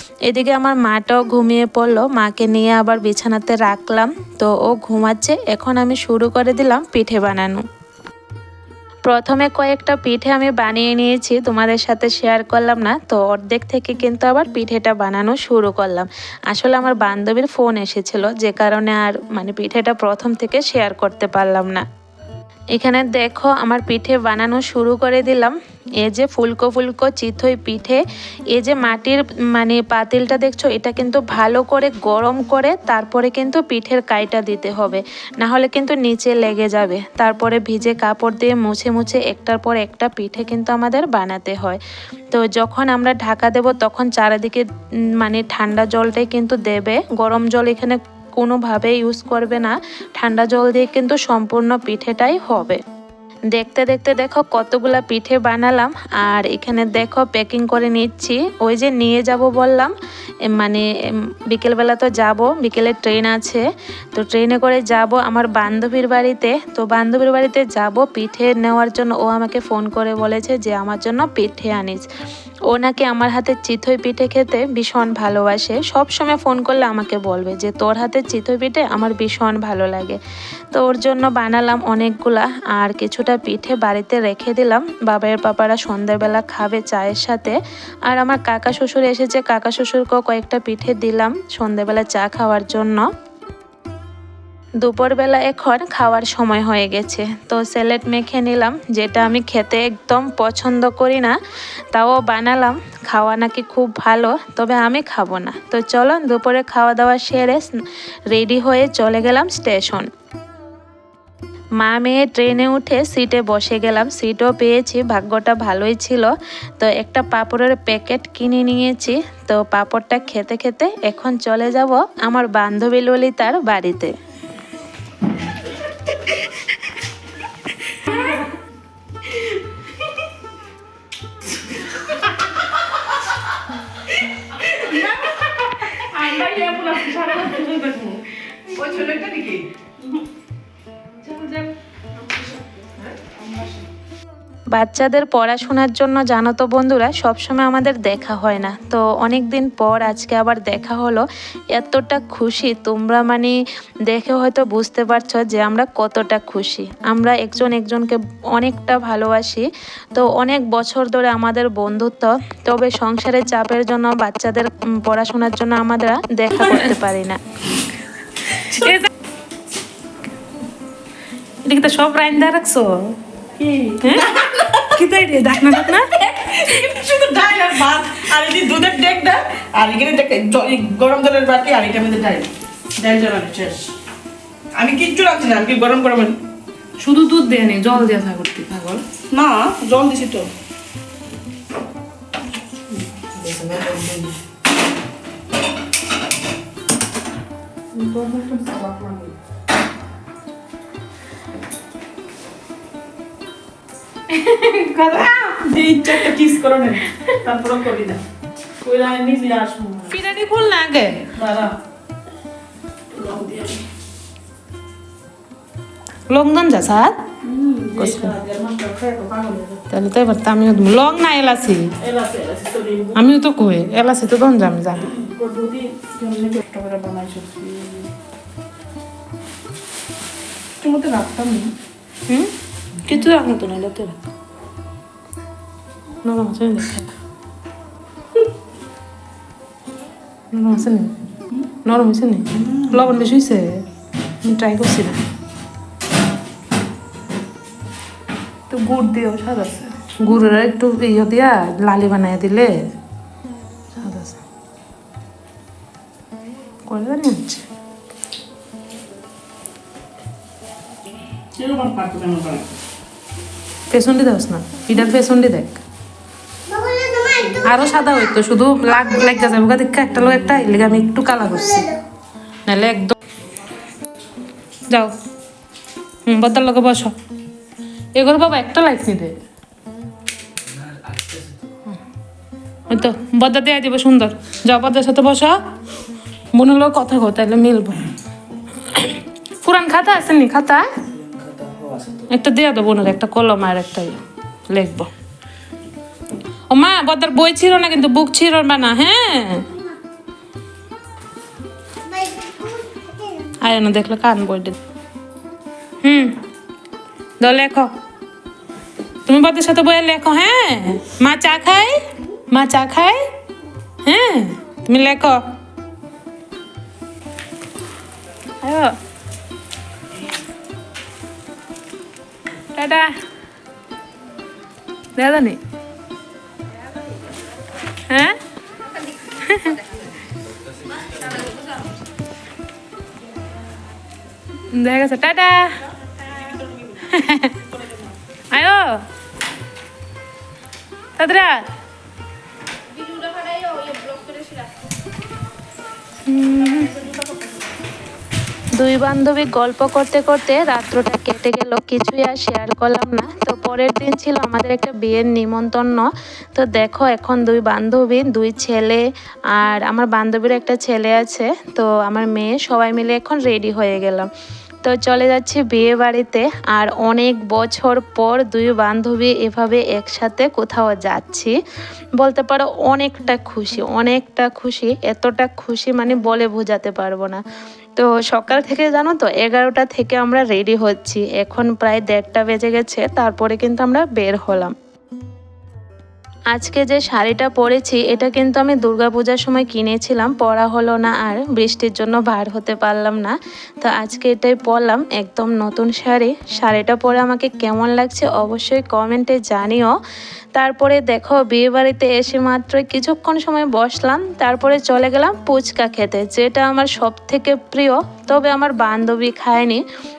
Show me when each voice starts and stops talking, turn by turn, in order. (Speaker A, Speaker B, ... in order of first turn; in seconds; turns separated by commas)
Speaker A: 0.3-7.6, Speaker A: 9.1-21.8, Speaker A: 22.7-41.8, Speaker A: 42.3-44.6, Speaker A: 45.2-52.8, Speaker A: 53.5-59.9, Speaker A: 60.5-60.9, Speaker A: 61.5-72.1, Speaker A: 72.7-80.2, Speaker A: 80.7-93.1, Speaker A: 94.8-101.3, Speaker A: 101.9-107.8, Speaker A: 108.3-110.1, Speaker A: 111.8-124.1, Speaker B: 128.1-128.4, Speaker B: 134.6-140.2, Speaker B: 141.2-143.9, Speaker A: 144.7-167.4, Speaker A: 171.7-172.9, Speaker B: 173.6-175.1, Speaker A: 175.0-176.0, Speaker C: 175.2-175.7, Speaker B: 175.7-183.9, Speaker B: 184.8-186.4, Speaker C: 187.0-189.0, Speaker A: 188.1-188.9, Speaker B: 189.3-190.5, Speaker B: 192.9-194.3, Speaker B: 197.9-199.3, Speaker C: 204.4-204.9, Speaker B: 204.9-208.2, Speaker B: 208.8-210.2, Speaker C: 210.4-211.2, Speaker A: 210.5-211.0, Speaker B: 211.3-211.7, Speaker B: 213.1-213.8, Speaker C: 216.4-217.1, Speaker B: 217.4-219.9, Speaker C: 220.2-221.8, Speaker B: 222.0-223.3, Speaker C: 223.3-225.0, Speaker B: 224.9-228.1, Speaker B: 230.8-231.7, Speaker A: 233.1-234.2, Speaker C: 236.2-237.0, Speaker C: 240.6-241.1, Speaker C: 241.9-243.8, Speaker B: 242.5-243.3, Speaker C: 244.4-245.2, Speaker C: 248.7-252.7, Speaker C: 257.0-257.5, Speaker B: 261.5-262.7, Speaker C: 263.9-265.7, Speaker B: 267.2-267.6, Speaker C: 267.7-271.9, Speaker C: 272.7-273.1, Speaker C: 276.3-277.1, Speaker C: 278.2-279.4, Speaker C: 282.9-285.6, Speaker C: 286.5-288.1, Speaker C: 289.6-290.9, Speaker B: 291.4-292.3, Speaker C: 292.8-293.1, Speaker A: 293.3-294.2, Speaker C: 296.7-299.7, Speaker C: 302.1-303.3, Speaker A: 303.6-304.8, Speaker C: 306.0-306.3, Speaker C: 307.4-307.7, Speaker C: 309.3-313.2, Speaker C: 314.1-315.4, Speaker C: 318.6-318.9, Speaker C: 322.8-323.1, Speaker C: 325.2-325.6, Speaker C: 328.1-328.4, Speaker C: 329.4-329.8, Speaker C: 334.7-335.7, Speaker B: 336.2-337.1, Speaker C: 337.1-337.6, Speaker B: 337.6-338.1, Speaker C: 338.5-339.0, Speaker C: 341.2-341.7, Speaker C: 343.1-344.6, Speaker B: 343.2-344.6, Speaker C: 346.3-347.0, Speaker B: 346.9-347.4, Speaker A: 348.8-364.3, Speaker A: 364.8-371.6, Speaker A: 372.2-377.4, Speaker A: 378.0-384.7, Speaker A: 386.5-399.9, Speaker A: 400.6-409.8